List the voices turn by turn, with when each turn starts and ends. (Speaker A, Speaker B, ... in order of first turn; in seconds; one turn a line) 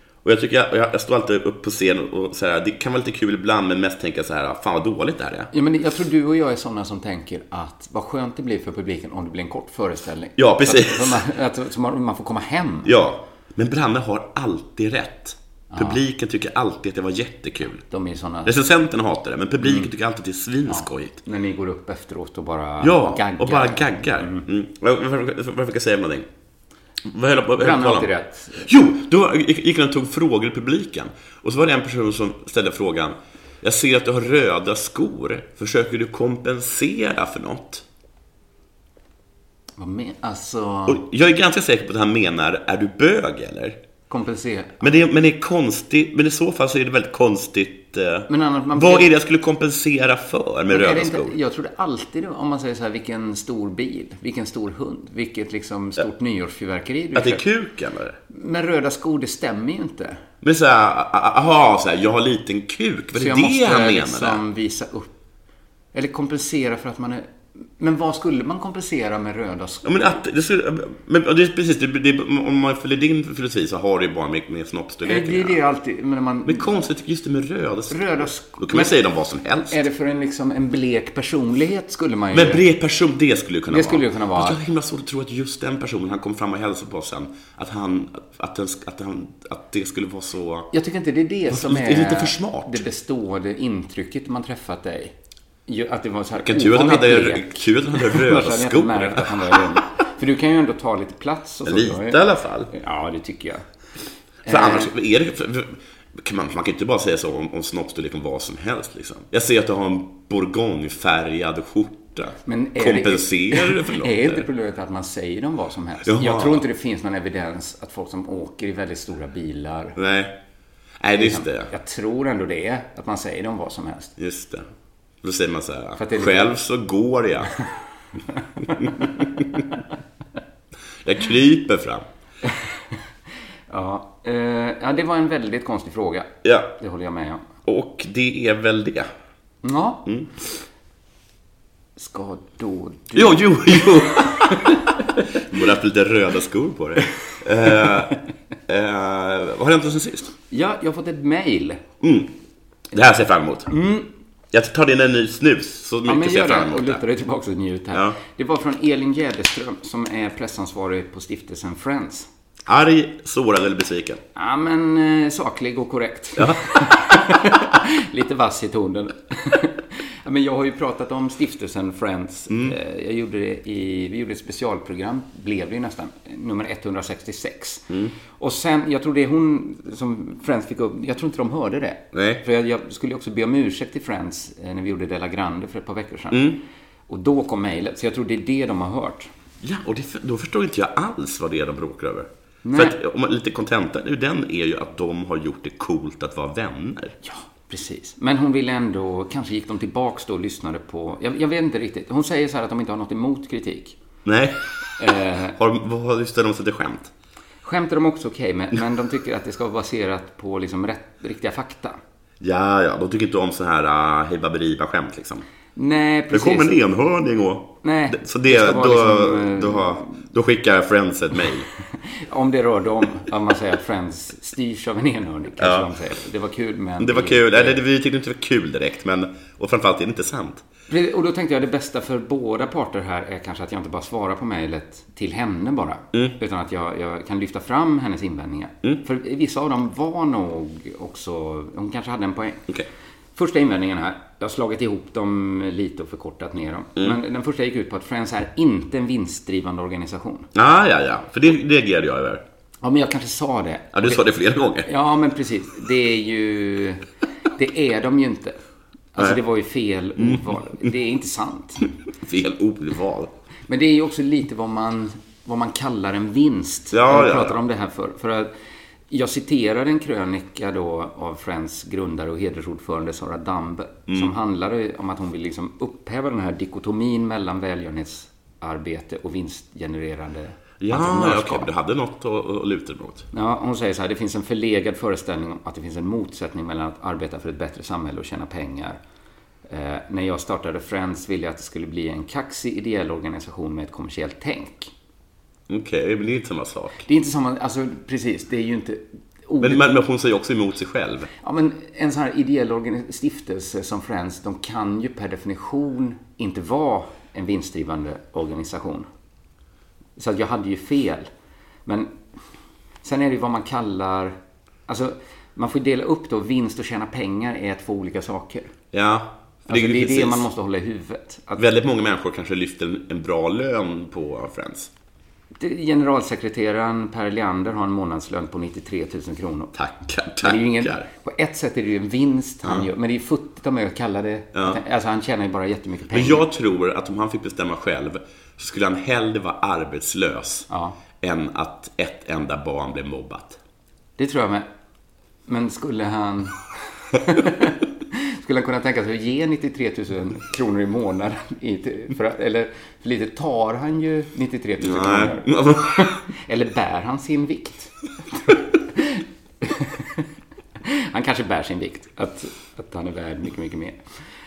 Speaker A: 0.2-5.5
Speaker B: 5.5-13.0
Speaker A: 10.4-11.3
Speaker A: 12.8-17.8
Speaker B: 15.7-16.0
Speaker B: 17.9-18.5
Speaker A: 18.5-21.2
Speaker B: 19.6-19.9
Speaker B: 20.7-24.5
Speaker A: 22.8-26.3
Speaker A: 27.0-37.8
Speaker B: 27.6-28.7
Speaker B: 39.8-41.0
Speaker A: 40.9-43.8
Speaker B: 44.1-44.9
Speaker A: 44.8-51.4
Speaker B: 48.3-49.1
Speaker B: 50.7-57.4
Speaker A: 57.1-58.2
Speaker B: 58.3-60.2
Speaker A: 60.4-64.4
Speaker B: 63.1-65.1
Speaker B: 65.9-70.2
Speaker A: 69.8-75.6
Speaker B: 75.0-76.7
Speaker A: 76.5-79.8
Speaker B: 77.9-79.0
Speaker B: 79.7-82.6
Speaker A: 82.3-90.7
Speaker B: 83.7-84.6
Speaker B: 90.7-95.2
Speaker A: 91.5-92.8
Speaker B: 95.7-102.2
Speaker A: 96.4-99.6
Speaker A: 101.7-102.7
Speaker B: 102.7-103.7
Speaker B: 104.4-104.9
Speaker A: 104.5-114.4
Speaker B: 112.5-120.0
Speaker A: 116.0-116.7
Speaker A: 120.0-120.4
Speaker A: 121.0-121.7
Speaker B: 121.1-124.2
Speaker A: 124.2-124.7
Speaker A: 125.2-127.5
Speaker B: 126.0-126.5
Speaker B: 128.6-129.1
Speaker A: 128.7-129.6
Speaker A: 131.0-132.1
Speaker B: 132.5-132.9
Speaker B: 133.7-137.5
Speaker A: 136.4-136.7
Speaker A: 137.7-139.1
Speaker B: 139.6-140.1
Speaker A: 140.1-140.4
Speaker B: 142.0-145.1
Speaker A: 143.1-144.8
Speaker A: 145.3-148.2
Speaker A: 148.7-150.3
Speaker B: 150.5-151.8
Speaker A: 152.0-152.3
Speaker A: 152.9-153.7
Speaker B: 153.7-154.1
Speaker A: 154.5-157.0
Speaker B: 156.1-162.3
Speaker A: 157.9-158.2
Speaker A: 162.7-164.2
Speaker B: 164.3-189.3
Speaker A: 166.4-167.2
Speaker A: 172.5-172.8
Speaker A: 182.1-182.4
Speaker A: 186.3-186.6
Speaker A: 189.6-197.2
Speaker B: 192.6-193.0
Speaker B: 197.2-204.0
Speaker A: 204.2-204.6
Speaker B: 205.0-205.6
Speaker A: 205.6-207.1
Speaker B: 207.6-212.0
Speaker A: 212.4-215.5
Speaker B: 215.8-216.7
Speaker A: 216.3-221.7
Speaker B: 217.8-220.2
Speaker B: 222.0-227.8
Speaker A: 225.6-225.9
Speaker A: 227.0-230.6
Speaker B: 230.9-242.7
Speaker B: 243.3-250.5
Speaker A: 250.5-252.4
Speaker B: 252.8-254.3
Speaker A: 253.9-254.9
Speaker B: 254.8-258.6
Speaker B: 259.1-261.9
Speaker A: 262.2-263.3
Speaker B: 263.7-268.5
Speaker A: 266.9-267.6
Speaker B: 269.1-281.7
Speaker A: 280.8-283.3
Speaker B: 283.3-289.0
Speaker B: 289.7-294.9
Speaker A: 295.7-297.1
Speaker B: 297.1-299.8
Speaker A: 299.6-301.3
Speaker B: 301.4-309.1
Speaker B: 310.2-311.3
Speaker B: 311.9-312.1
Speaker B: 313.0-318.7
Speaker A: 318.9-320.5
Speaker B: 319.7-321.7
Speaker A: 321.6-324.9
Speaker B: 325.6-329.8
Speaker A: 329.8-331.1
Speaker B: 330.4-336.4
Speaker A: 334.5-334.8
Speaker A: 336.1-340.7
Speaker B: 340.7-341.0
Speaker A: 341.2-343.6
Speaker B: 344.2-344.7
Speaker B: 345.5-357.9
Speaker A: 354.8-356.2
Speaker B: 358.5-360.3
Speaker B: 360.8-364.0